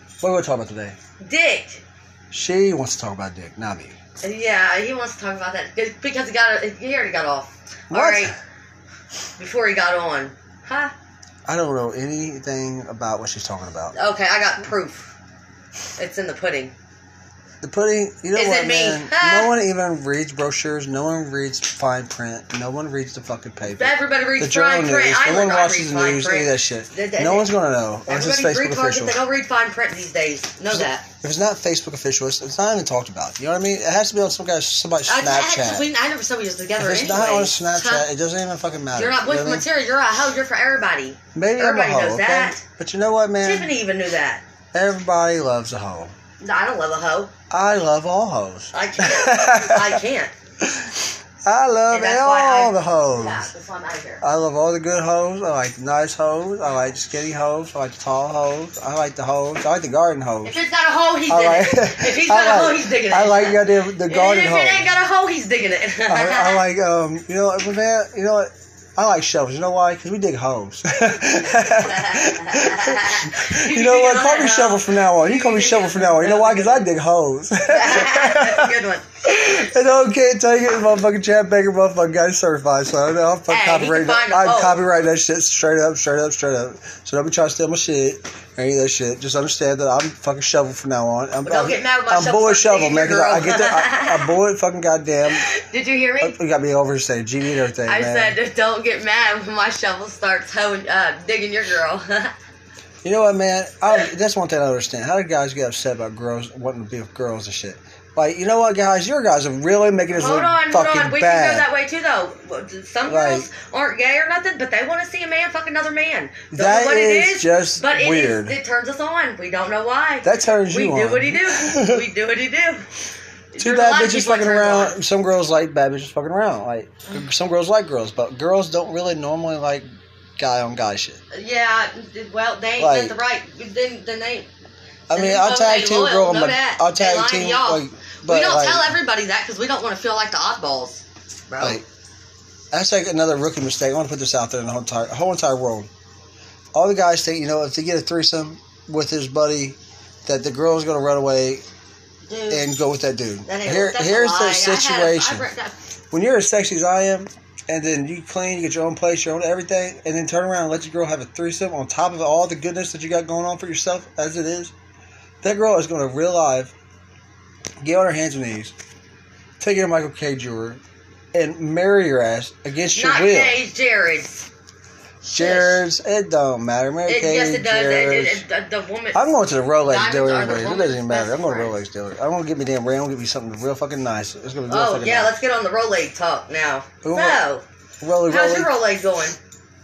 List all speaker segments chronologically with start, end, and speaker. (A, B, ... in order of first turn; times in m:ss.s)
0:00.2-0:01.0 A
0:01.2-0:01.8 B
0:02.3-0:04.0 A
0:04.2-0:08.3 B
0:07.9-0:08.3 A
0:09.4-0:10.9 B
0:11.5-0:13.9 A
0:13.9-0:15.1 B
0:16.0-0:16.7 B
0:17.6-0:29.2 A
0:18.3-0:19.5 B
0:23.6-0:27.5 B
0:28.0-0:31.0 B
0:30.7-0:35.9 A
0:35.0-0:38.1 B
0:36.8-0:39.6 A
0:38.9-0:42.6 B
0:41.3-0:43.7 A
0:43.4-0:44.4 B
0:44.7-0:46.1 A
0:46.4-0:47.3 B
0:47.5-0:50.0 A
0:48.7-0:50.3 B
0:50.6-0:53.5 A
0:51.9-0:54.2 B
0:54.2-1:00.6 A
1:00.4-1:06.7 B
1:01.3-1:04.9 A
1:06.1-1:18.7 A
1:11.6-1:16.9 B
1:17.7-1:19.1 B
1:19.2-1:35.4 A
1:23.5-1:24.8 B
1:31.4-1:34.3 B
1:35.3-1:36.4 B
1:36.2-1:38.4 A
1:37.8-1:42.3 B
1:43.0-1:51.7 A
1:50.1-2:02.9 B
1:53.1-1:53.5 A
1:56.5-1:58.6 A
2:00.2-2:02.0 A
2:03.5-2:05.0 B
2:03.6-2:09.8 A
2:10.4-2:11.2 A
2:11.3-2:14.5 B
2:12.8-2:13.2 A
2:15.1-2:18.9 A
2:15.1-2:21.8 B
2:21.6-2:21.8 A
2:22.7-2:25.9 A
2:26.7-2:31.6 A
2:32.3-2:32.7 B
2:32.5-2:35.5 A
2:33.4-2:35.7 B
2:36.1-2:44.7 A
2:45.4-2:46.7 A
2:47.8-2:48.7 A
2:49.6-2:50.8 A
2:51.3-2:53.6 A
2:52.9-2:54.5 B
2:55.2-2:55.8 B
2:55.3-2:58.4 A
2:57.1-2:59.3 B
2:59.1-3:05.3 A
2:59.8-3:01.8 B
3:04.7-3:07.6 B
3:07.0-3:07.4 A
3:08.0-3:08.7 A
3:08.2-3:09.4 B